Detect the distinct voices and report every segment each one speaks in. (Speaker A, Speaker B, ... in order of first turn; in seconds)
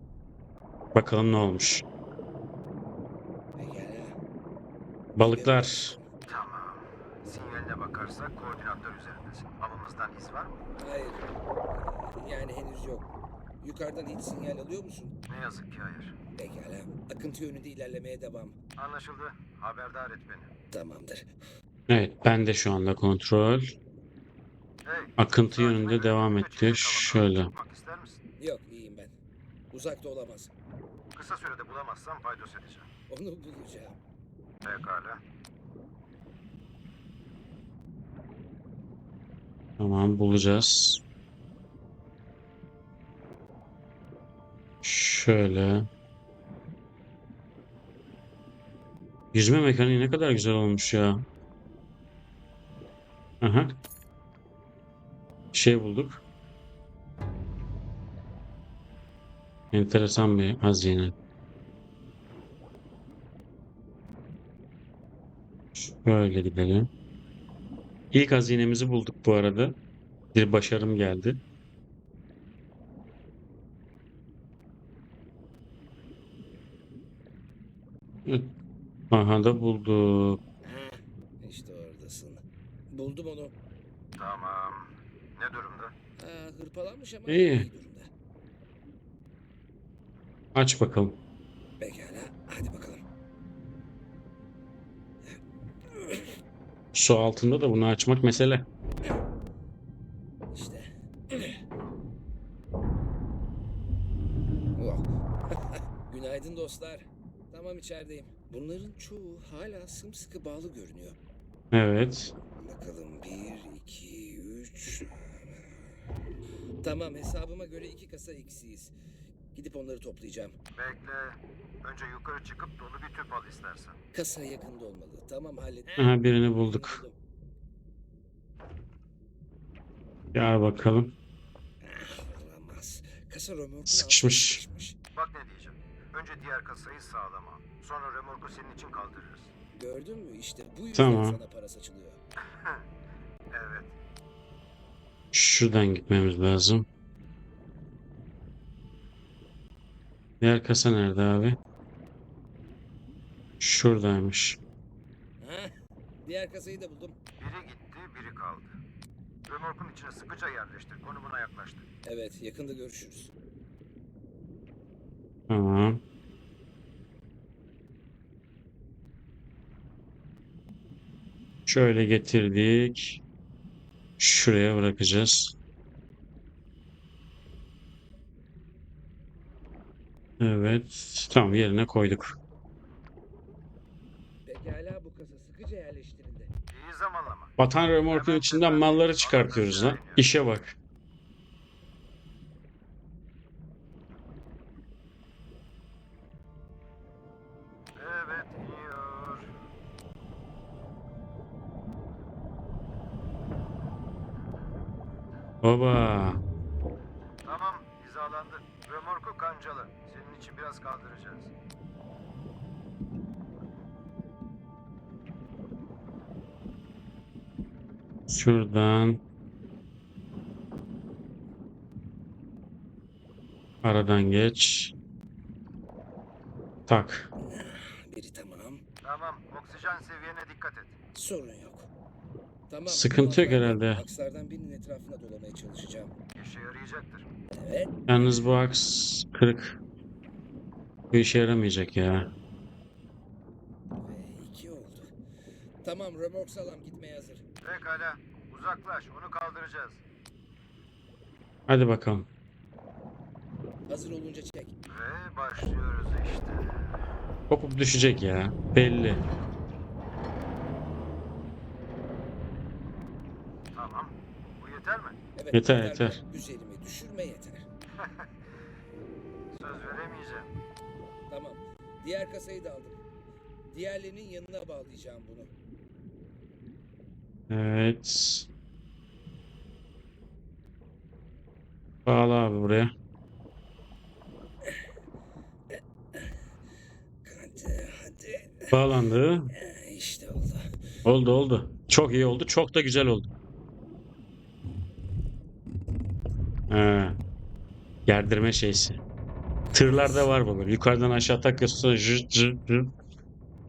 Speaker A: 0.9-1.9, 5.2-6.0, 21.9-23.8, 25.2-27.5, 39.8-41.0, 44.8-45.9, 49.3-51.2, 53.4-53.7, 55.5-56.2, 59.7-61.1, 65.8-66.9, 68.1-69.8, 70.3-71.4, 79.1-80.4, 87.3-87.7, 90.5-91.2, 96.9-98.7, 111.7-112.3, 126.0-127.0, 130.3-131.2, 133.9-134.6, 140.9-141.4, 145.3-146.9, 150.4-151.6, 153.6-154.6, 165.5-166.0, 171.7-173.2, 174.2-175.6, 180.4-182.3, 187.6-190.8, 205.6-206.4, 218.3-219.2, 223.8-224.9, 226.9-227.3, 232.9-234.0, 238.1-239.8, 241.1-242.3, 251.7-252.3, 257.5-259.2, 265.5-266.2, 277.5-278.5, 282.1-282.9, 288.7-289.5, 291.1-293.3, 296.7-297.2, 298.1-299.0, 299.7-302.9
Speaker B: 3.6-4.2, 5.3-6.1, 10.8-13.1, 13.6-15.2, 16.4-18.6, 20.7-21.3, 28.4-29.1, 29.7-30.5, 33.1-34.0, 80.6-83.5, 86.2-88.1, 91.8-93.0, 95.9-96.3, 100.5-101.6, 104.8-111.2, 112.6-115.8, 116.8-118.9, 119.5-120.6, 124.1-127.1, 131.8-135.0, 139.8-142.2, 155.4-155.7, 156.2-157.2, 162.1-163.3, 184.5-186.5, 227.4-228.8, 231.2-231.9, 232.7-236.1, 237.5-237.9, 244.0-245.1, 245.8-247.5, 253.9-254.7, 265.4-267.7, 271.3-273.0, 273.7-275.5, 287.2-288.8, 289.5-290.6, 299.7-300.3
Speaker C: 6.3-10.6, 15.3-16.1, 18.8-20.5, 24.8-28.2, 31.1-32.9, 34.6-35.2, 84.2-85.9, 120.8-124.0, 135.2-139.5, 143.5-143.9, 157.4-158.7, 159.5-161.8, 186.7-187.6, 188.1-190.3, 198.0-199.5, 207.4-211.5, 229.0-230.9, 236.3-237.3, 247.6-250.0, 254.9-256.9, 263.7-265.2, 269.5-270.5